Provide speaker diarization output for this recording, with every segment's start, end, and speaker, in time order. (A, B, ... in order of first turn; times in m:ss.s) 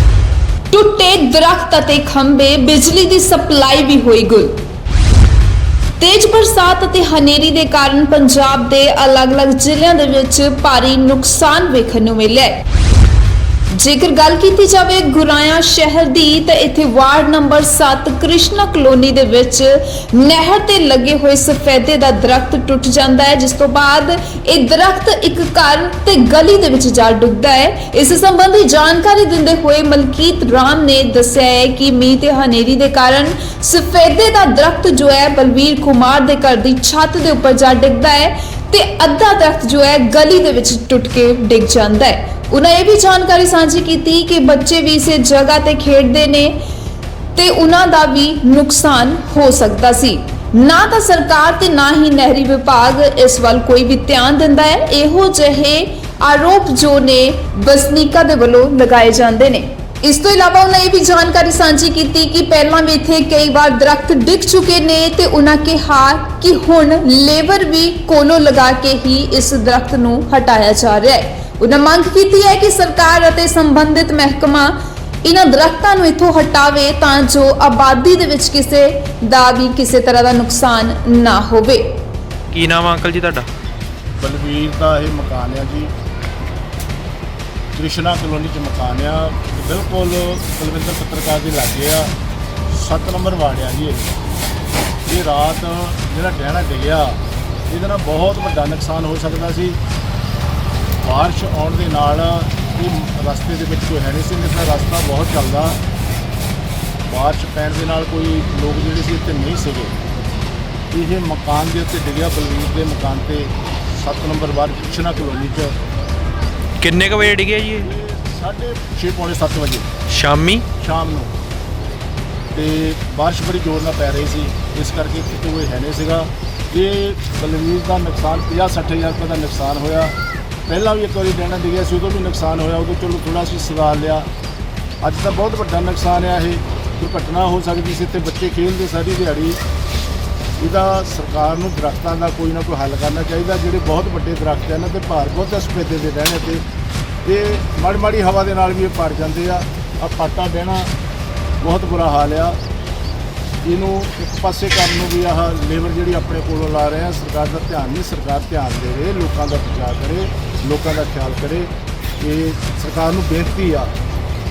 0:00.7-0:04.6 A
0:06.0-0:12.6 A
0:13.7-0:46.6 A
0:47.4-1:21.8 A
1:22.5-1:23.5 B
1:24.2-1:25.9 C
1:27.8-1:32.1 C
1:32.7-1:34.1 C
1:35.1-1:39.8 C
1:41.0-1:45.8 C
1:47.1-1:50.0 C
1:50.9-1:55.8 C
1:56.8-1:57.9 B
1:57.8-1:59.9 C
2:00.1-2:00.6 B
2:00.8-2:01.3 C
2:02.5-2:10.2 C
2:10.7-2:14.3 C
2:15.0-2:19.6 C
2:20.6-2:26.6 C
2:27.2-2:30.9 C
2:31.6-2:32.6 C
2:33.6-2:43.9 C